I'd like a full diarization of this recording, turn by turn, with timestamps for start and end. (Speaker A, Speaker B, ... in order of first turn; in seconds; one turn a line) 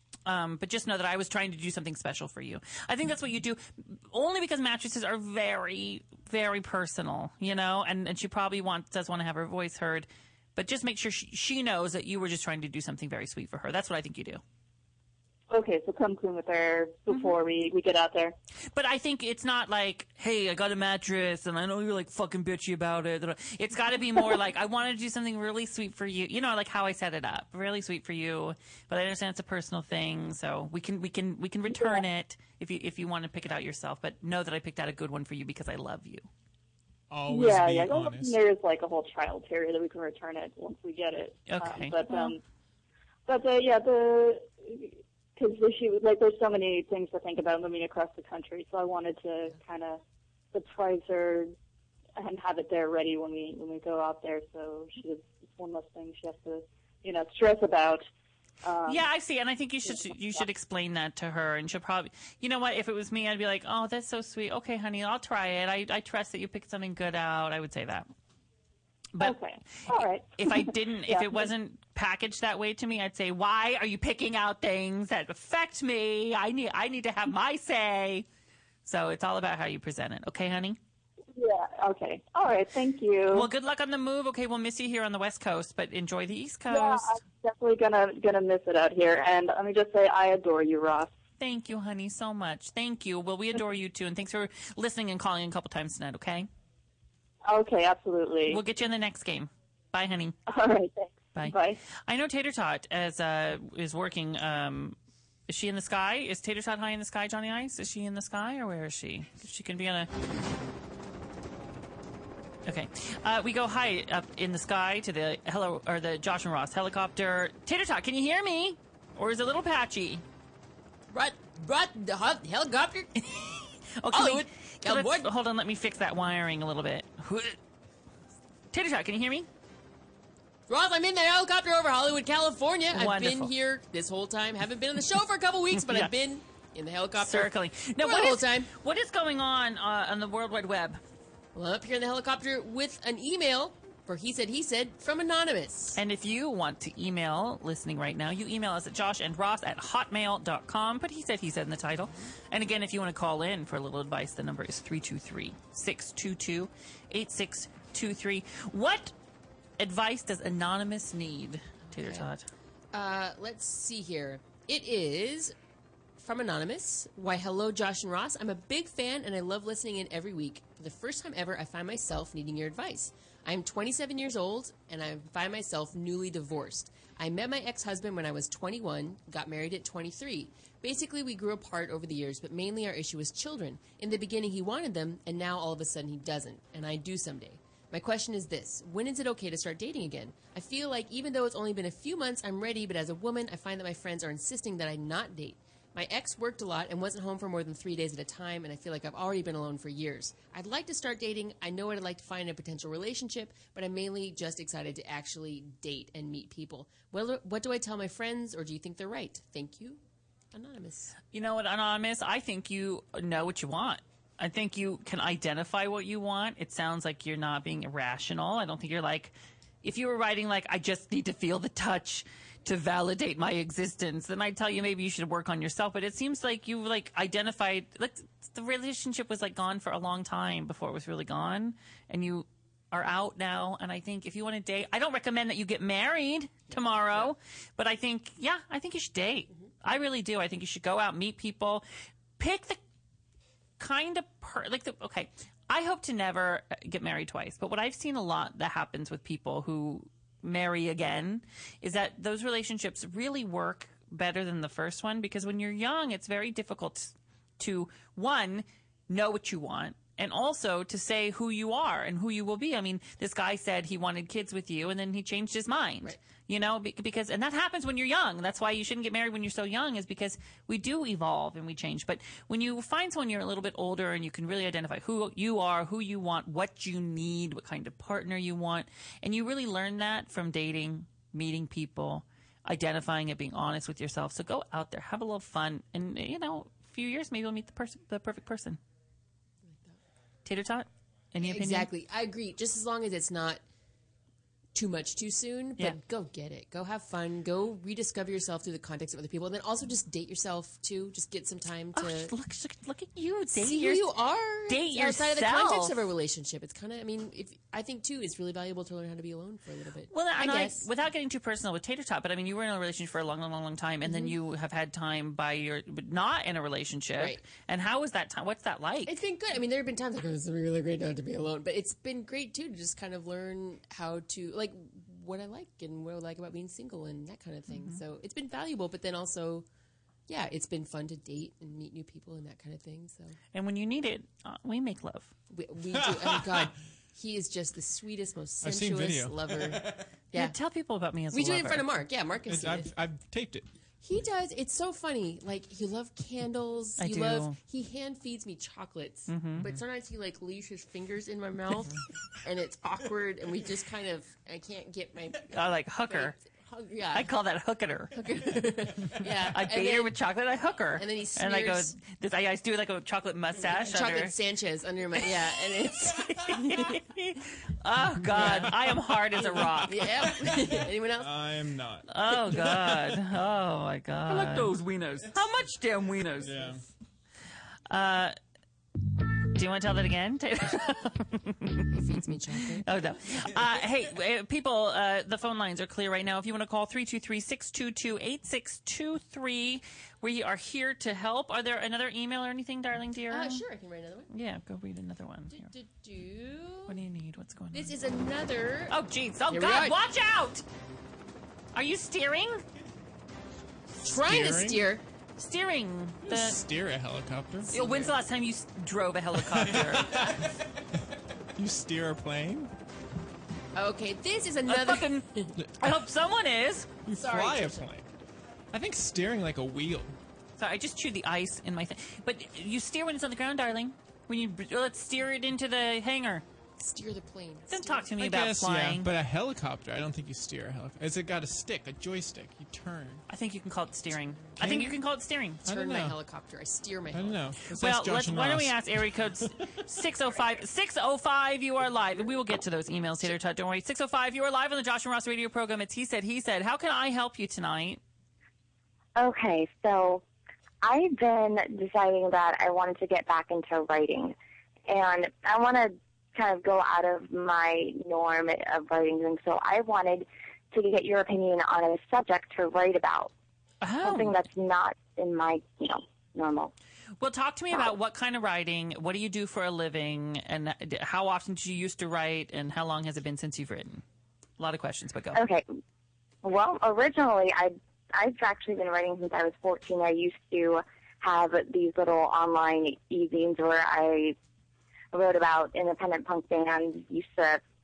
Speaker A: 0.2-14.4
Speaker B: 15.5-18.3
Speaker A: 18.7-36.2
Speaker B: 31.7-32.0
Speaker C: 37.1-38.4
Speaker B: 37.3-42.4
Speaker A: 41.5-42.3
Speaker B: 43.3-50.0
Speaker B: 50.5-51.5
Speaker B: 52.2-58.0
Speaker B: 58.6-59.0
Speaker A: 58.9-68.1
Speaker B: 59.8-60.4
Speaker A: 69.1-78.2
Speaker B: 69.2-71.5
Speaker A: 78.8-80.8
Speaker B: 81.3-83.5
Speaker A: 83.3-87.1
Speaker B: 86.7-91.1
Speaker A: 91.4-96.5
Speaker B: 97.5-98.6
Speaker A: 98.5-100.4
Speaker B: 100.5-101.8
Speaker A: 101.3-105.0
Speaker A: 105.5-110.1
Speaker A: 112.7-120.2
Speaker D: 121.1-123.1
Speaker A: 123.2-127.6
Speaker D: 124.1-125.3
Speaker A: 128.7-129.5
Speaker D: 130.7-138.7
Speaker A: 132.9-133.5
Speaker A: 135.7-136.1
Speaker A: 137.2-141.0
Speaker D: 141.5-146.0
Speaker A: 145.9-159.1
Speaker A: 159.8-162.4
Speaker D: 161.9-162.3
Speaker D: 162.9-165.5
Speaker D: 166.2-210.0
Speaker D: 210.5-211.2
Speaker A: 211.3-241.8
Speaker D: 236.7-237.3
Speaker A: 242.4-242.8
Speaker A: 243.8-288.8
Speaker D: 289.6-290.0
Speaker A: 290.4-291.9
Speaker D: 291.4-293.6
Speaker D: 294.7-302.3
Speaker A: 301.9-304.1
Speaker D: 303.5-310.9
Speaker A: 304.7-306.0
Speaker A: 310.1-319.1
Speaker D: 314.0-314.3
Speaker D: 317.2-317.4
Speaker D: 319.1-329.6
Speaker A: 327.7-328.0
Speaker D: 330.3-333.3
Speaker A: 333.5-335.3
Speaker D: 335.5-340.5
Speaker C: 335.9-336.7
Speaker C: 338.6-340.0
Speaker A: 340.3-341.9
Speaker D: 341.3-342.9
Speaker C: 342.5-343.6
Speaker D: 344.0-355.5
Speaker A: 347.0-347.6
Speaker A: 349.3-349.6
Speaker A: 355.5-356.3
Speaker D: 356.1-357.3
Speaker A: 357.1-358.1
Speaker D: 358.1-360.1
Speaker A: 359.5-364.3
Speaker D: 361.0-361.9
Speaker D: 363.6-367.0
Speaker A: 366.5-370.1
Speaker C: 368.3-368.8
Speaker D: 368.4-368.7
Speaker D: 369.6-371.3
Speaker C: 370.5-373.2
Speaker A: 372.1-376.6
Speaker C: 374.3-375.3
Speaker C: 376.4-376.8
Speaker A: 377.9-378.3
Speaker A: 379.5-393.6
Speaker D: 381.9-383.2
Speaker D: 393.3-394.3
Speaker A: 394.3-395.7
Speaker D: 395.5-396.9
Speaker A: 396.9-397.9
Speaker D: 397.7-398.9
Speaker A: 398.9-400.6
Speaker D: 399.5-399.9
Speaker A: 401.7-402.6
Speaker C: 404.0-404.8
Speaker D: 404.0-405.0
Speaker A: 405.4-406.6
Speaker C: 406.2-407.8
Speaker D: 407.7-408.1
Speaker A: 407.7-410.3
Speaker C: 409.4-410.5
Speaker C: 411.6-412.7
Speaker D: 413.8-415.5
Speaker A: 414.7-415.2
Speaker C: 415.6-415.9
Speaker A: 415.8-417.0
Speaker C: 417.1-418.0
Speaker D: 417.1-417.9
Speaker C: 418.7-420.1
Speaker A: 420.6-426.4
Speaker D: 426.8-428.1
Speaker A: 427.7-429.1
Speaker C: 428.2-433.2
Speaker A: 433.3-435.6
Speaker C: 434.6-434.9
Speaker C: 435.6-436.2
Speaker D: 435.6-437.4
Speaker C: 437.1-438.8
Speaker A: 437.8-448.0
Speaker E: 449.1-450.2
Speaker E: 450.8-454.3
Speaker E: 454.9-463.3
Speaker A: 463.8-464.4
Speaker E: 464.0-466.7
Speaker A: 467.2-474.0
Speaker A: 474.6-475.4
Speaker E: 475.3-475.6
Speaker E: 476.4-484.4
Speaker E: 485.1-487.6